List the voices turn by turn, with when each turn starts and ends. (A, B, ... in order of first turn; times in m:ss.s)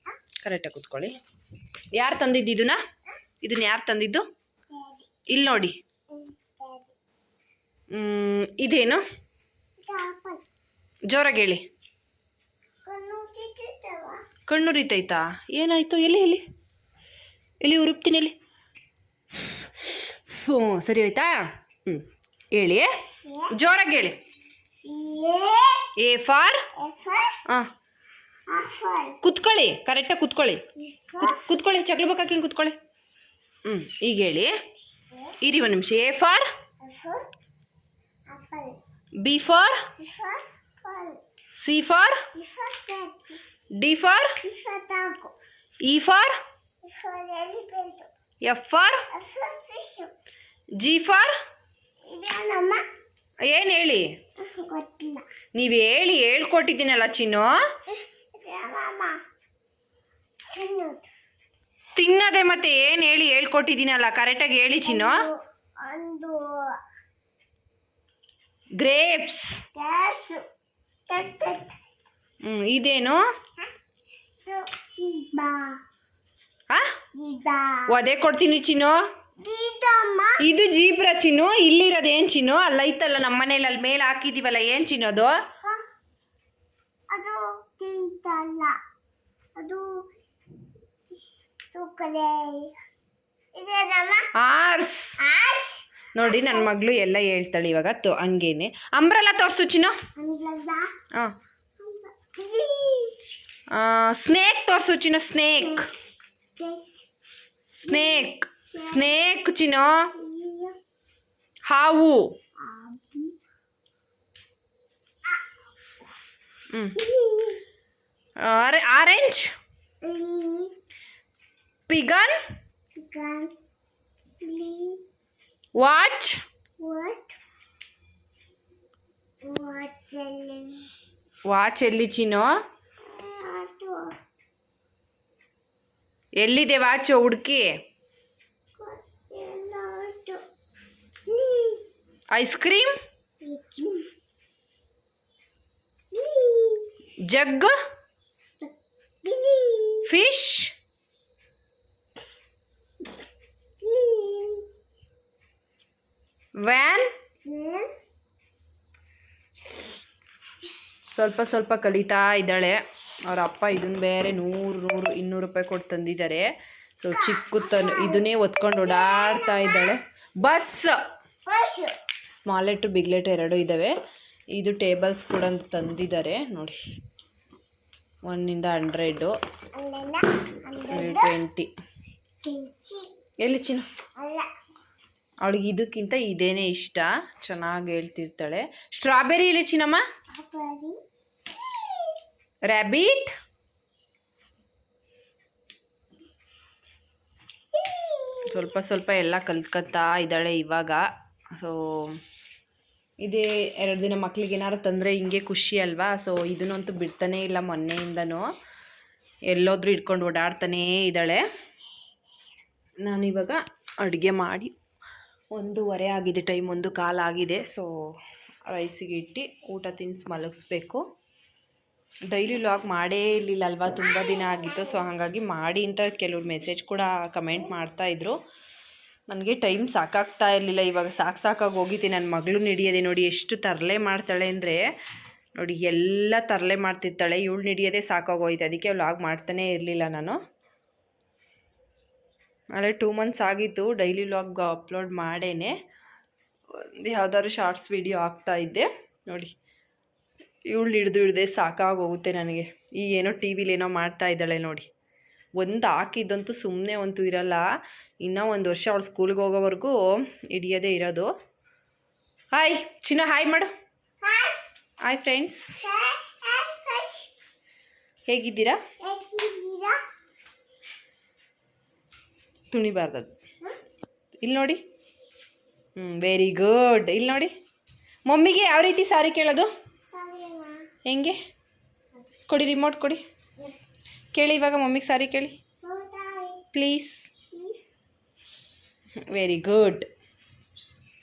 0:00.4-0:01.2 A
0:01.9-0:02.8 A
0:03.4-0:04.2 A
0:04.7-0:05.1 B
0:05.3-0:05.8 A
0:06.1-0:07.0 B
0:07.9-0:09.0 A
0:09.8-0:10.4 B
0:11.1-0:11.6 A
0:12.8-0:14.2 B
0:14.5-0:16.4 A
0:17.6-0:18.4 A
0:19.8-0:22.9 A
0:23.2-0:23.6 B
0:23.5-0:24.2 A
0:24.8-0:25.9 B
0:26.0-0:26.6 A
0:26.8-0:27.4 B
0:28.5-0:29.2 B
0:29.2-0:30.6 A
0:30.8-0:31.5 B
0:31.2-0:32.8 A
0:33.6-0:34.5 A
0:35.4-0:36.4 A
0:36.8-0:37.3 B
0:38.3-0:38.8 B
0:39.2-0:39.9 A
0:40.0-0:41.2 B
0:41.5-0:42.2 A
0:42.4-0:43.4 B
0:43.8-0:44.4 A
0:44.4-0:45.4 B
0:45.8-0:46.4 A
0:46.8-0:48.1 B
0:48.4-0:49.1 A
0:49.1-0:50.1 B
0:50.8-0:51.3 A
0:52.1-0:52.8 B
0:53.5-0:54.1 A
0:54.4-0:55.3 B
0:55.6-0:57.5 A
0:57.9-0:59.2 B
1:00.5-1:01.1 B
1:02.0-1:05.2 A
1:04.8-1:06.8 B
1:08.8-1:09.6 A
1:09.7-1:10.4 B
1:11.1-1:11.8 B
1:12.4-1:13.2 A
1:14.4-1:15.8 B
1:17.1-1:17.9 B
1:17.9-1:19.0 A
1:19.4-1:20.4 B
1:20.4-1:25.4 A
1:27.1-1:28.8 B
1:29.6-1:30.0 B
1:31.7-1:32.7 B
1:33.5-1:34.3 B
1:34.3-1:35.2 A
1:35.2-1:36.7 B
1:36.2-1:40.0 A
1:40.2-1:40.9 B
1:41.8-1:43.2 B
1:43.7-1:45.9 A
1:45.6-1:45.9 B
1:46.6-1:47.0 B
1:47.7-1:50.1 A
1:47.8-1:49.3 B
1:50.1-1:50.8 B
1:51.7-1:52.3 A
1:52.6-1:53.4 B
1:56.7-1:57.0 A
1:57.0-1:57.6 B
1:58.4-1:59.5 A
2:00.0-2:00.8 B
2:01.9-2:02.3 A
2:03.0-2:03.6 B
2:04.4-2:05.0 B
2:05.8-2:06.4 A
2:06.8-2:07.4 B
2:09.4-2:10.9 B
2:11.5-2:12.5 A
2:13.0-2:14.1 B
2:16.4-2:17.7 A
2:18.8-2:20.4 B
2:21.3-2:21.9 B
2:22.3-2:22.9 A
2:23.4-2:24.1 B
2:26.1-2:26.9 B
2:27.3-2:27.7 A
2:28.6-2:30.1 B
2:30.1-2:30.7 A
2:33.8-2:34.7 B
2:36.6-2:37.1 A
2:37.4-2:37.9 B
2:41.1-2:46.5 A
2:47.0-2:51.0 A
2:47.1-2:49.9 B
2:51.5-2:52.0 B
2:52.3-2:54.0 A
2:54.6-2:56.8 A
2:58.3-2:59.3 A
2:59.8-3:01.4 B
3:00.9-3:01.7 A
3:02.4-3:03.1 B
3:03.4-3:03.9 A
3:04.2-3:04.5 B
3:05.4-3:10.0 A
3:10.3-3:11.0 B
3:11.5-3:12.2 B
3:12.7-3:13.3 A
3:17.7-3:18.7 B
3:18.5-3:21.1 A
3:21.6-3:22.2 A
3:23.2-3:28.5 A
3:29.5-3:31.4 A
3:33.0-3:34.7 A
3:35.5-3:37.9 A
3:38.7-3:41.0 A
3:42.3-3:48.4 A
3:44.0-3:45.0 B
3:49.3-3:54.8 A
3:55.6-4:00.4 A
4:02.8-4:05.7 A
4:06.8-4:09.5 A
4:10.7-4:14.9 A
4:15.6-4:17.6 A
4:18.2-4:21.3 A
4:22.5-4:23.7 A
4:24.2-4:24.6 B
4:25.1-4:25.7 A
4:25.8-4:27.3 B
4:28.3-4:28.8 A
4:29.0-4:30.0 B
4:32.7-4:33.3 A
4:34.4-4:34.8 A
4:36.0-4:37.5 A
4:38.3-4:39.7 A
4:40.1-4:40.9 B
4:41.1-4:41.4 A
4:42.5-4:43.2 A
4:44.3-4:45.6 A
4:45.8-4:46.7 B
4:46.7-4:47.3 A
4:47.5-4:47.8 B
4:49.2-4:50.1 A